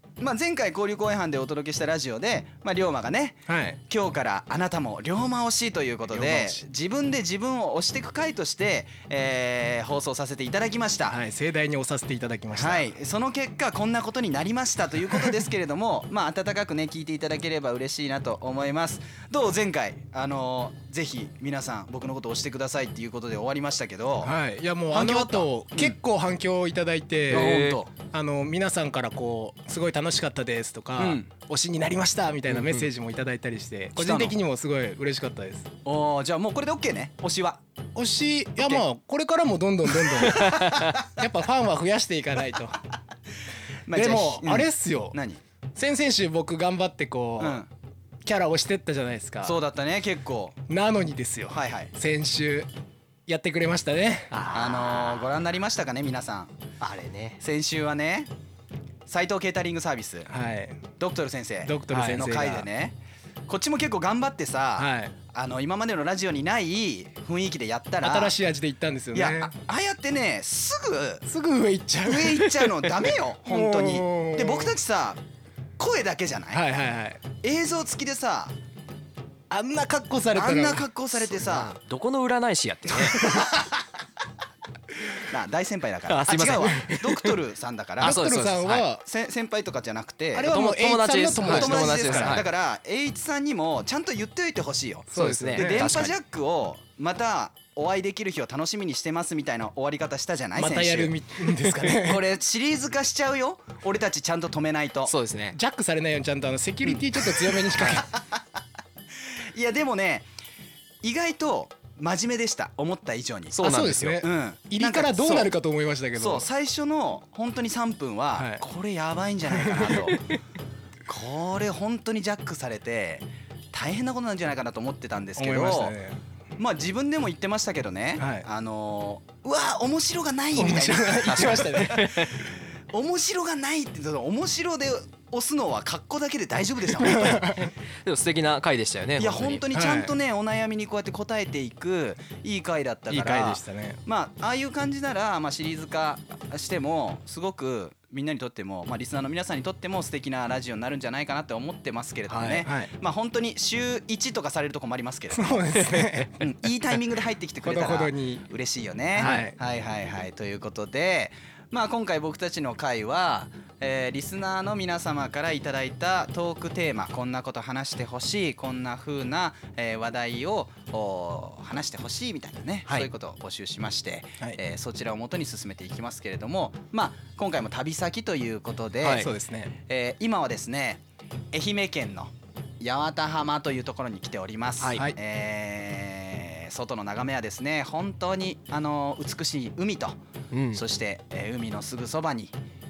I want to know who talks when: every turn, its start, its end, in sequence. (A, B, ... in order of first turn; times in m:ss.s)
0:00.2-0:11.2 A
0:03.5-0:03.8 B
0:06.1-0:06.6 B
0:11.1-0:12.9 B
0:12.5-0:24.4 A
0:15.1-0:15.4 B
0:24.2-0:35.7 B
0:24.9-0:26.0 A
0:27.3-0:27.9 A
0:27.3-0:27.8 C
0:31.0-0:31.3 A
0:32.5-0:32.9 C
0:34.0-0:34.4 A
0:35.8-0:37.6 A
0:38.0-0:42.8 B
0:40.2-0:41.1 A
0:40.4-0:40.7 C
0:43.9-0:45.4 A
0:43.9-0:45.2 B
0:45.8-0:47.6 B
0:47.4-0:47.7 A
0:48.2-0:49.6 B
0:49.4-0:50.6 A
0:50.7-0:52.7 B
0:51.5-0:51.9 A
0:53.3-0:54.4 B
0:54.3-0:55.3 C
0:54.5-0:56.8 A
0:56.8-0:57.4 C
0:57.3-0:58.3 A
0:59.1-1:00.3 A
1:00.3-1:00.8 B
1:01.0-1:08.4 A
1:01.6-1:02.7 B
1:01.9-1:02.2 C
1:04.8-1:05.1 B
1:08.0-1:09.5 B
1:09.1-1:11.3 A
1:11.3-1:12.5 B
1:12.0-1:15.2 A
1:13.5-1:14.8 B
1:15.8-1:16.6 A
1:16.5-1:17.2 B
1:17.4-1:18.6 A
1:19.5-1:20.9 B
1:20.3-1:21.8 A
1:21.3-1:23.5 C
1:23.2-1:23.5 B
1:23.2-1:23.6 A
1:25.2-1:28.2 A
1:26.1-1:27.3 C
1:28.0-1:28.9 C
1:28.0-1:29.0 B
1:29.0-1:30.6 A
1:30.4-1:32.4 B
1:30.5-1:32.5 C
1:31.4-1:45.1 A
1:35.1-1:35.9 B
1:35.2-1:36.1 C
1:40.6-1:42.2 B
1:45.1-1:45.6 C
1:45.5-1:48.1 B
1:46.9-1:48.4 A
1:49.3-1:50.3 A
1:51.0-1:53.6 A
1:53.5-1:54.2 C
1:53.6-1:56.5 B
1:54.2-1:55.5 A
1:56.2-2:00.2 A
1:58.4-1:58.6 B
2:01.1-2:06.0 A
2:05.4-2:06.2 B
2:06.6-2:17.7 A
2:08.2-2:08.5 B
2:10.5-2:12.0 B
2:11.2-2:12.4 C
2:17.0-2:17.7 B
2:18.0-2:19.6 C
2:19.2-2:35.8 A
2:19.7-2:20.1 B
2:23.1-2:24.0 B
2:32.3-2:32.7 C
2:32.6-2:32.9 B
2:35.3-2:36.4 B
2:35.8-2:36.3 C
2:36.4-2:59.3 A
2:37.6-2:38.4 B
2:39.2-2:39.6 B
2:39.2-2:39.5 C
2:59.0-2:59.3 C
2:59.1-2:59.7 B
2:59.9-3:10.2 A
3:04.8-3:05.1 C
3:10.5-3:10.8 C
3:10.7-3:12.6 A